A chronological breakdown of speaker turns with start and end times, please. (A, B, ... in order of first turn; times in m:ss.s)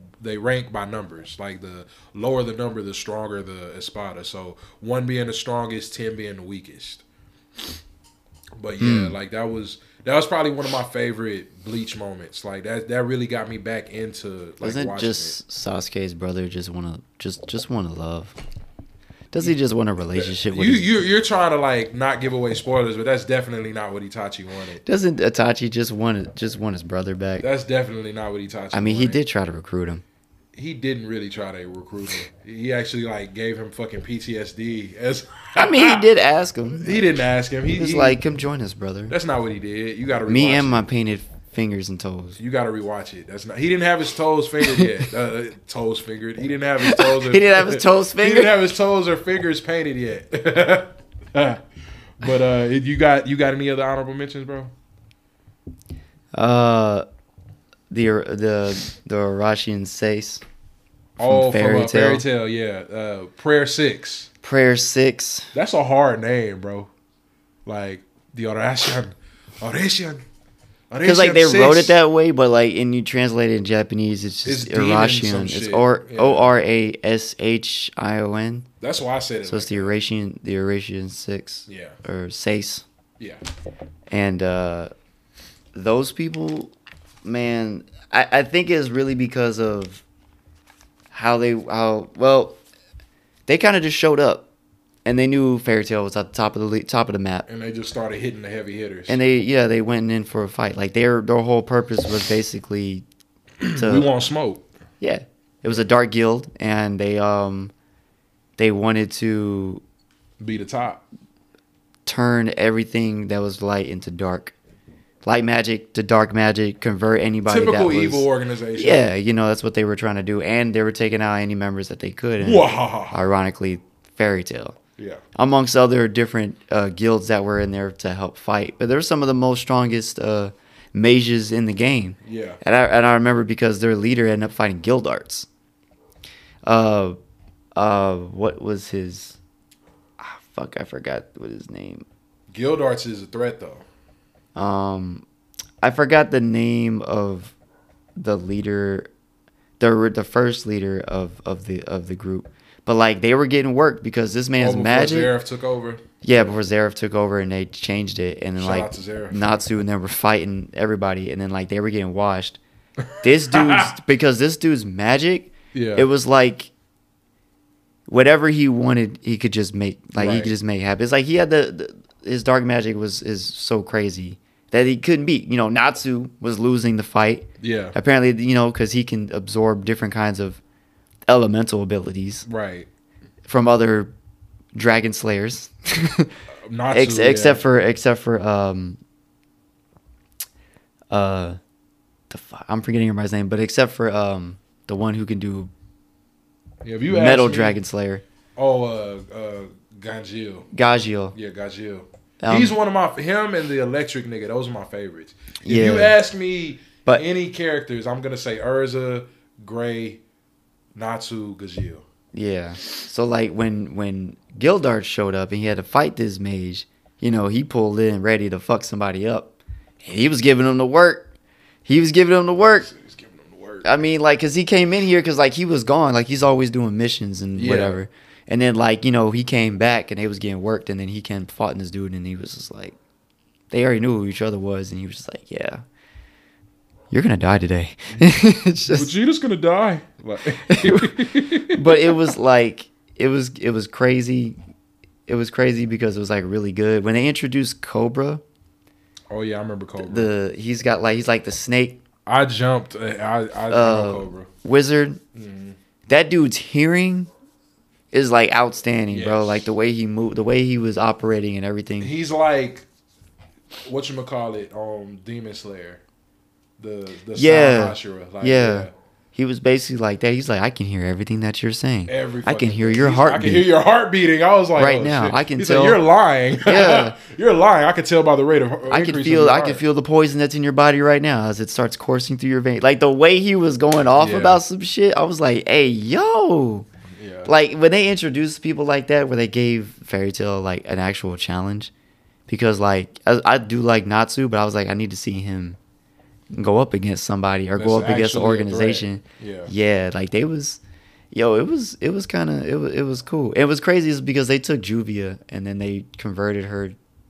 0:00.2-0:07.0 A
0:08.6-0:15.4 A
0:08.8-0:09.2 B
0:14.6-0:18.4 B
0:19.3-0:20.9 B
0:20.1-0:24.8 A
0:24.8-0:27.4 B
0:27.4-0:29.2 A
0:28.7-0:30.0 B
0:30.5-0:36.0 A
0:35.6-0:37.0 B
0:36.8-0:38.2 A
0:37.7-0:39.1 B
0:39.1-0:40.9 A
0:40.2-0:42.4 B
0:42.4-0:51.6 A
0:44.6-0:45.0 B
0:46.8-0:48.6 B
0:52.2-0:54.7 A
0:56.3-0:57.0 B
0:57.9-1:00.4 B
1:01.2-1:04.3 A
1:01.2-1:02.2 B
1:04.4-1:05.5 B
1:05.5-1:06.9 A
1:07.6-1:10.2 A
1:10.9-1:11.9 A
1:11.0-1:18.7 B
1:14.4-1:16.5 A
1:18.8-1:20.0 A
1:19.4-1:22.8 B
1:21.7-1:22.0 A
1:24.1-1:24.9 B
1:25.7-1:30.0 B
1:31.1-1:32.6 B
1:33.5-1:34.5 B
1:35.0-1:37.4 B
1:37.5-1:39.2 A
1:39.1-1:43.0 B
1:43.6-1:44.6 A
1:43.8-1:44.1 B
1:45.0-1:47.7 B
1:48.6-1:49.8 B
1:50.4-1:51.0 A
1:52.0-1:54.5 B
1:55.2-2:04.8 B
1:57.4-1:59.1 A
2:02.4-2:03.2 A
2:05.3-2:15.5 B
2:12.2-2:12.6 A
2:16.6-2:17.2 B
2:17.8-2:19.4 B
2:20.2-2:22.0 B
2:22.5-2:23.8 A
2:24.5-2:25.2 B
2:25.8-2:27.5 B
2:28.2-2:29.1 B
2:29.8-2:35.3 B
2:34.6-2:36.0 A
2:36.2-2:42.6 B
2:38.6-2:39.6 A
2:43.0-2:44.0 A
2:43.2-2:46.7 B
2:45.7-2:46.1 A
2:48.1-3:00.6 B
2:50.2-2:50.5 A
2:57.6-2:57.9 A
3:01.3-3:02.4 B
3:02.4-3:02.9 A
3:03.4-3:04.1 B
3:04.7-3:06.3 B
3:06.6-3:07.7 A
3:06.9-3:09.0 B
3:11.1-3:11.6 B
3:12.3-3:15.7 B
3:16.8-3:17.8 A
3:17.1-3:18.2 B
3:18.6-3:20.7 A
3:20.7-3:21.3 B
3:21.3-3:30.2 A
3:22.4-3:22.7 B
3:25.6-3:26.2 B
3:30.9-3:32.0 A
3:32.3-3:41.3 B
3:41.8-3:42.9 B
3:42.8-3:43.9 A
3:43.8-3:53.0 B
3:47.6-3:48.0 A
3:53.7-3:55.8 B
3:57.1-3:59.1 B
3:58.9-4:02.1 A
4:00.6-4:04.6 B
4:05.3-4:08.4 B
4:09.3-4:10.3 A
4:10.0-4:12.0 B
4:12.2-4:14.5 A
4:13.7-4:15.2 B
4:15.3-4:15.8 A
4:16.1-4:17.3 B
4:18.1-4:22.1 B
4:19.1-4:19.7 A
4:22.0-4:22.8 A
4:23.8-4:26.0 A
4:26.8-4:28.9 A
4:27.3-4:33.7 B
4:32.1-4:39.8 A
4:34.8-4:36.0 B
4:36.6-4:37.1 B
4:38.9-4:46.9 B
4:44.2-4:44.6 A
4:47.2-4:47.5 A
4:47.4-4:51.9 B
4:52.5-4:55.8 B
4:56.5-5:00.8 B
4:57.8-4:59.7 A
5:01.3-5:07.0 B